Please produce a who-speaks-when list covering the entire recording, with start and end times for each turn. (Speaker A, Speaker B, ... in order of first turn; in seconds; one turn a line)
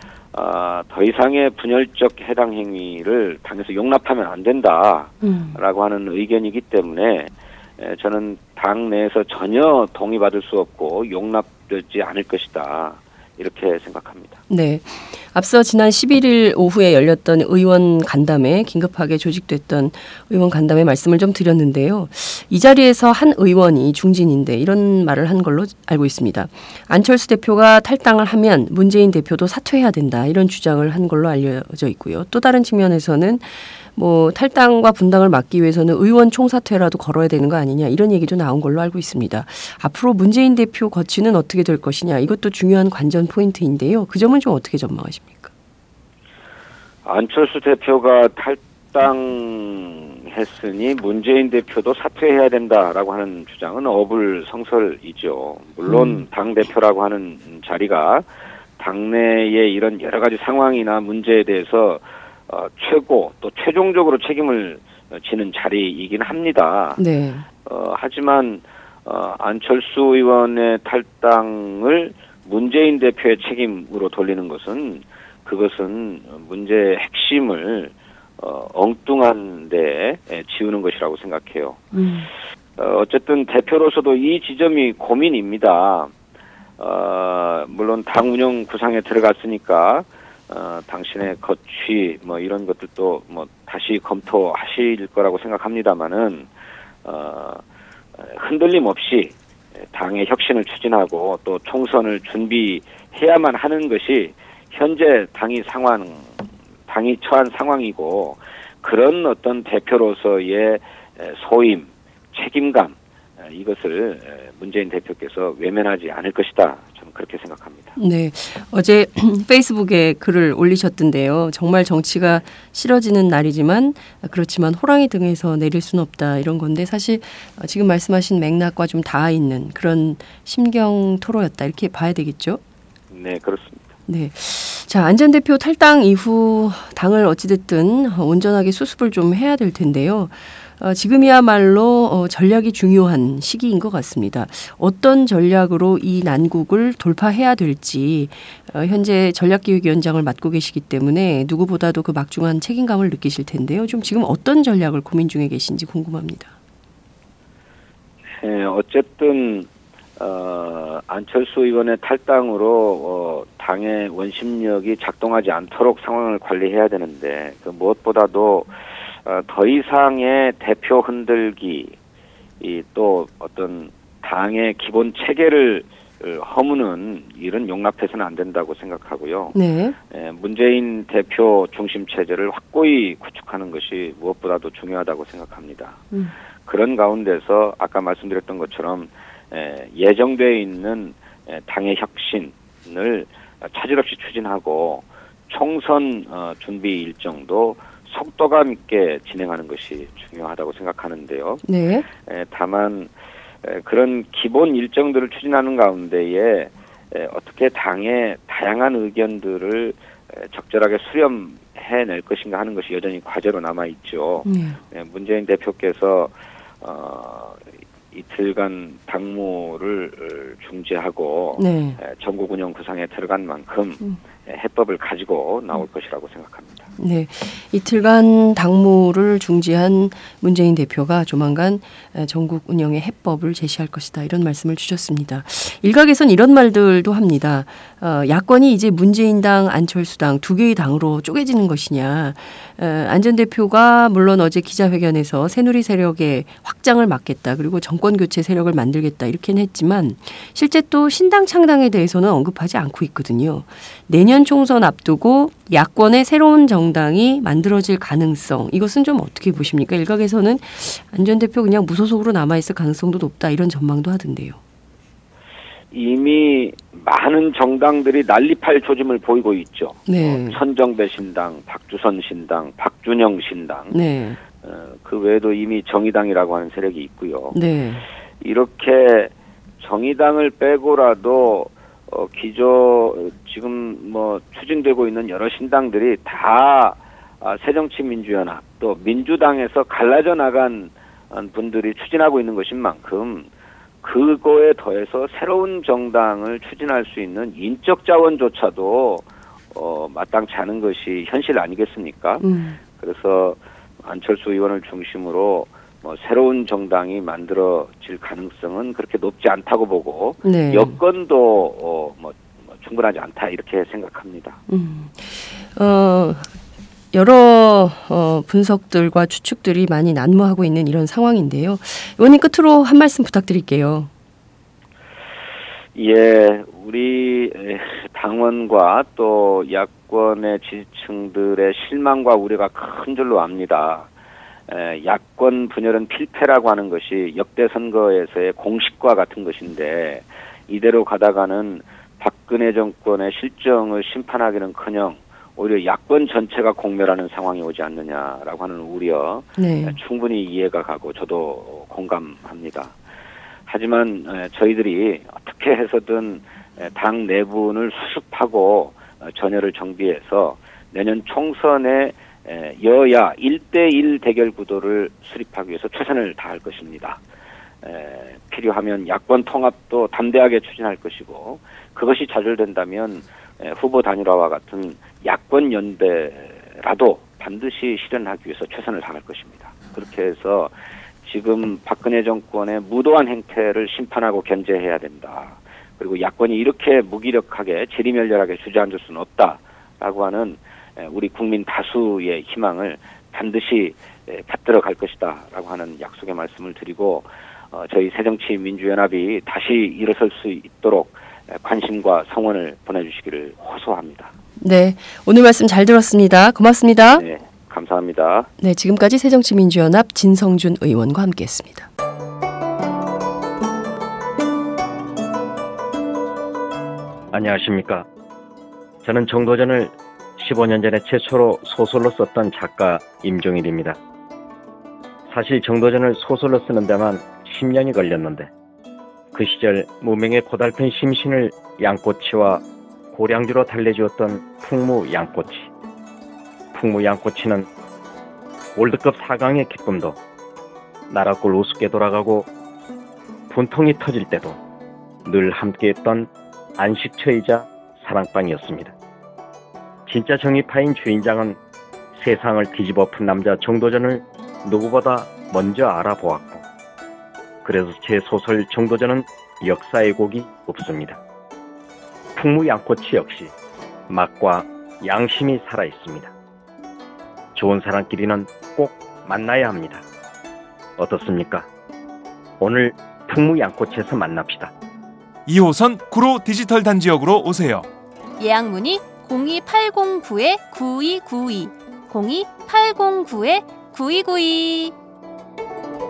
Speaker A: 0.3-14.4
Speaker B: 5.2-5.6
Speaker B: 14.5-45.5
Speaker A: 47.0-58.3
Speaker B: 55.9-56.2
Speaker A: 58.8-67.0
Speaker B: 67.0-67.5
Speaker A: 67.6-81.9
Speaker B: 81.9-82.3
Speaker A: 82.8-86.1
Speaker A: 86.8-96.5
Speaker A: 97.0-97.6
Speaker A: 98.2-99.3
Speaker A: 99.9-106.4
Speaker A: 106.9-118.0
Speaker B: 118.0-132.6
Speaker A: 133.1-133.8
Speaker B: 134.1-156.5
Speaker A: 158.4-168.7
Speaker A: 169.2-171.9
Speaker A: 172.6-179.6
Speaker B: 179.5-179.9
Speaker A: 180.1-186.0
Speaker A: 186.7-201.6
Speaker B: 201.6-202.1
Speaker A: 202.2-203.1
Speaker A: 203.6-226.9
Speaker B: 214.4-214.8
Speaker B: 221.6-222.0
Speaker B: 227.0-264.6
Speaker A: 265.9-274.0
Speaker B: 270.1-270.6
Speaker B: 273.9-274.4
Speaker A: 274.6-277.6
Speaker B: 277.5-278.1
Speaker A: 278.4-293.5
Speaker A: 294.0-314.6
Speaker B: 302.4-302.8
Speaker B: 310.4-311.0
Speaker B: 314.7-316.5
Speaker B: 317.1-324.1
Speaker A: 325.9-334.1
Speaker A: 334.7-352.9
Speaker B: 349.6-350.0
Speaker A: 353.7-367.2
Speaker A: 367.8-404.3
Speaker B: 404.6-407.2
Speaker A: 407.1-408.5
Speaker B: 408.6-411.9
Speaker C: 417.3-418.1
Speaker C: 419.0-424.0
Speaker C: 425.3-428.5
Speaker C: 429.3-435.7
Speaker C: 436.7-437.7
Speaker C: 438.8-440.2
Speaker C: 441.1-442.5
Speaker C: 443.5-444.6
Speaker C: 445.2-448.9
Speaker C: 450.1-451.6
Speaker C: 452.1-456.6
Speaker C: 457.6-461.2
Speaker C: 462.4-463.5
Speaker C: 464.1-466.3
Speaker C: 467.6-470.0
Speaker C: 471.0-471.7
Speaker C: 472.6-474.7
Speaker D: 475.4-477.9
Speaker E: 478.4-484.9